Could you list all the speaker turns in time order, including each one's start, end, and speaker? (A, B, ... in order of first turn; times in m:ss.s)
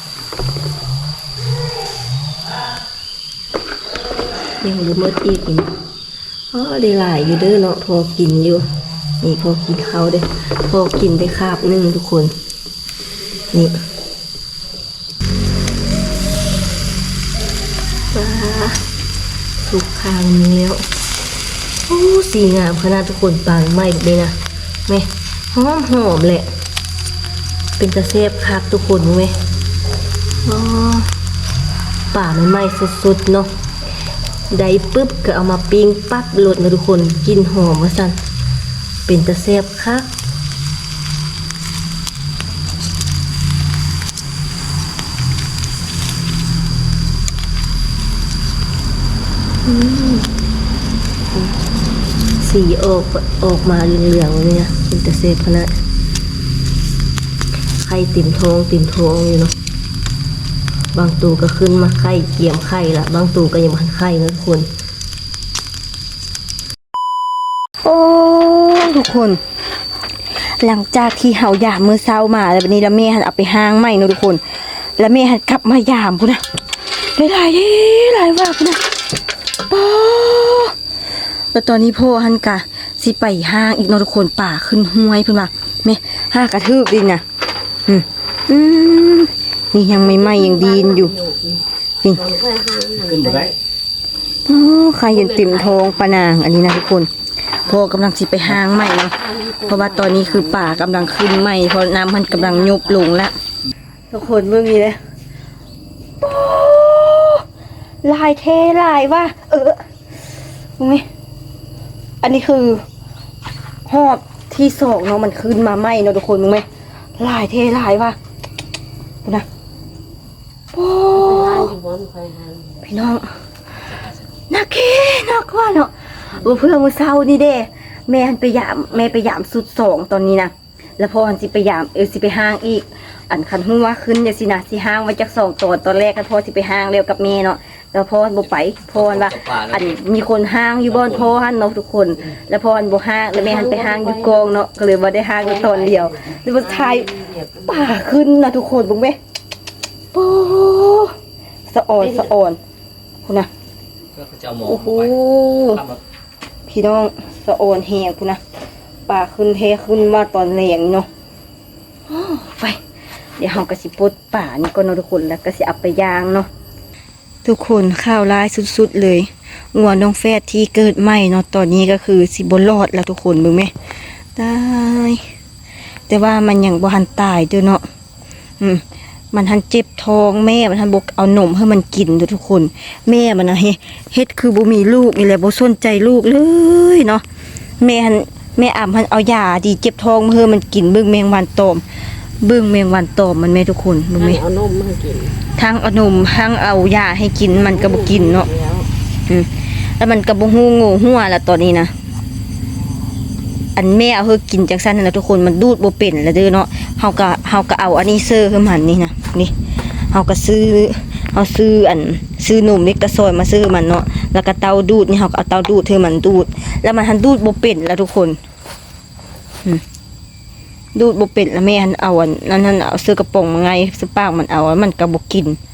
0:04.6-0:05.7 A
0:06.5-0:08.7 A
0:09.2-0:12.3 A
0:18.1-0:18.8 A
0:19.6-0:20.8 A
0:21.9-0:24.4 A
0:24.9-0:26.5 A
0:27.8-0:29.3 A
0:30.5-0:31.1 A
0:32.1-0:33.5 A
0:34.5-0:38.2 A
0:39.1-0:40.1 A
0:49.6-0:50.3 A
0:52.4-0:55.7 A
0:57.8-0:59.5 A
1:00.9-1:04.7 A
1:07.8-1:09.4 A
1:10.6-1:16.4 A
1:17.2-1:18.8 A
1:19.7-1:20.8 A
1:21.5-1:27.2 A
1:27.9-1:31.1 A
1:29.9-1:33.6 B
1:33.0-1:33.5 C
1:34.5-1:37.1 A
1:35.1-1:36.0 B
1:37.6-1:39.1 A
1:39.2-1:40.7 B
1:39.7-1:43.3 A
1:42.3-1:43.0 B
1:44.1-1:45.0 A
1:46.2-1:47.4 A
1:48.0-1:49.8 A
1:50.8-1:51.0 A
1:52.2-1:52.8 A
1:53.9-1:56.7 A
1:57.2-1:58.2 A
2:00.7-2:01.7 A
2:01.1-2:02.8 B
2:02.8-2:03.3 A
2:03.9-2:04.2 C
2:04.5-2:27.1 A
2:18.9-2:20.0 C
2:20.8-2:21.3 C
2:23.3-2:24.6 B
2:25.4-2:28.0 B
2:27.7-2:29.2 A
2:30.1-2:31.1 A
2:31.7-2:32.6 A
2:32.0-2:32.3 B
2:34.1-2:35.1 C
2:34.6-2:35.8 A
2:35.7-2:36.0 C
2:36.7-2:38.4 A
2:39.1-2:41.1 A
2:42.1-2:42.8 A
2:43.4-2:46.5 A
2:47.4-2:53.7 A
2:54.4-2:55.2 A
2:56.1-2:57.8 A
2:58.6-3:07.2 A
3:07.8-3:11.8 A
3:12.4-3:14.4 A
3:14.2-3:15.4 B
3:15.6-3:18.5 A
3:17.5-3:18.9 B
3:19.3-3:21.9 A
3:23.8-3:29.5 A
3:30.1-3:38.4 A
3:41.0-3:45.6 A